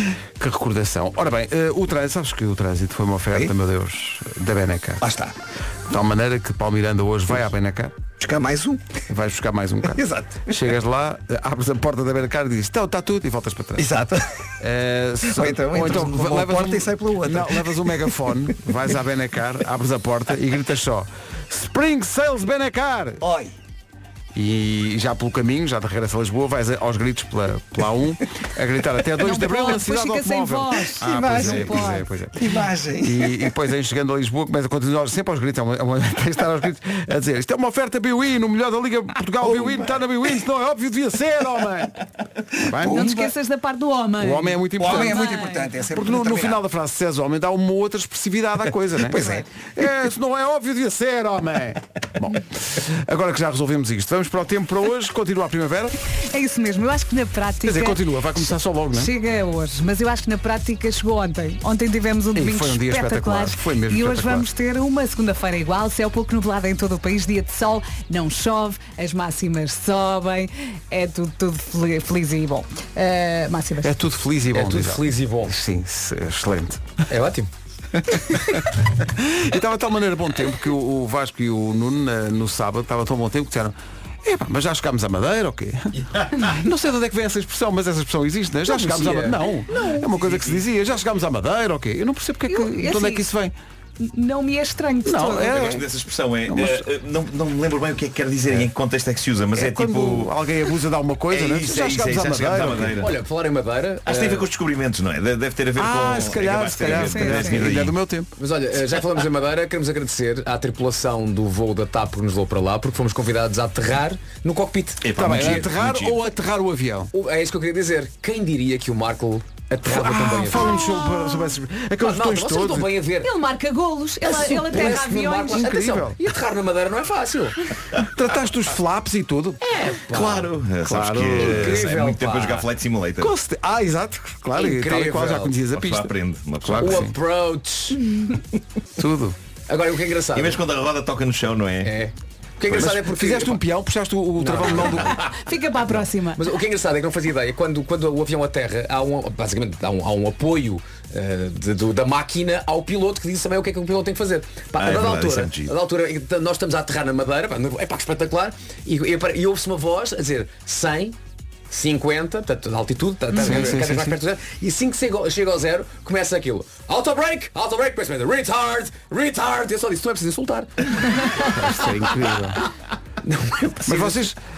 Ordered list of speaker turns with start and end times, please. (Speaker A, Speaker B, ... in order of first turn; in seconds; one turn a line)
Speaker A: 0.4-5.0
Speaker B: 5.0-5.3
Speaker A: 5.9-8.0
Speaker B: 8.2-9.0
Speaker A: 9.1-13.9
Speaker B: 9.8-10.7
Speaker B: 13.8-14.2
Speaker A: 14.6-23.2
Speaker B: 15.2-18.1
Speaker B: 23.2-23.5
Speaker A: 24.3-42.0
Speaker C: 29.2-32.0
Speaker B: 31.0-33.5
Speaker B: 39.4-40.0
Speaker A: 42.6-43.2
Speaker B: 42.7-43.3
Speaker C: 42.8-45.6
Speaker A: 44.2-56.0
Speaker B: 44.8-46.6
Speaker B: 49.0-49.4
Speaker C: 56.2-58.0
Speaker A: 57.6-59.1
Speaker C: 58.9-74.0
Speaker A: 62.3-64.5
Speaker A: 73.8-76.9
Speaker D: 74.5-75.5
Speaker D: 77.1-77.5
Speaker A: 78.0-93.5
Speaker D: 88.7-89.4
Speaker E: 90.2-90.6
Speaker C: 92.5-93.3
Speaker C: 94.0-95.6
Speaker A: 95.0-95.9
Speaker E: 95.4-100.3
Speaker A: 96.5-96.8
Speaker A: 99.5-103.0
Speaker E: 101.3-103.1
Speaker D: 103.0-104.5
Speaker E: 104.0-108.0
Speaker A: 105.7-108.3
Speaker C: 107.0-107.6
Speaker D: 108.4-115.7
Speaker E: 115.0-116.2
Speaker A: 115.1-117.1
Speaker D: 117.1-120.9
Speaker A: 119.8-122.9
Speaker C: 120.6-121.5
Speaker D: 122.0-123.3
Speaker C: 123.2-125.7
Speaker D: 124.2-127.6
Speaker A: 125.5-126.2
Speaker A: 128.1-129.6
Speaker D: 129.6-130.5
Speaker E: 130.1-133.3
Speaker A: 130.8-131.8
Speaker D: 131.4-132.7
Speaker A: 133.2-137.1
Speaker D: 134.5-135.6
Speaker E: 135.7-137.1
Speaker D: 136.8-138.0
Speaker A: 139.0-139.3
Speaker D: 139.7-140.6
Speaker E: 140.3-141.9
Speaker D: 141.8-143.6
Speaker A: 142.7-145.2
Speaker D: 144.4-145.3
Speaker C: 145.2-146.4
Speaker D: 146.3-161.2
Speaker E: 154.8-155.7
Speaker D: 161.7-171.8
Speaker A: 163.3-164.2
Speaker A: 171.4-172.6
Speaker D: 173.2-174.2
Speaker A: 173.8-174.4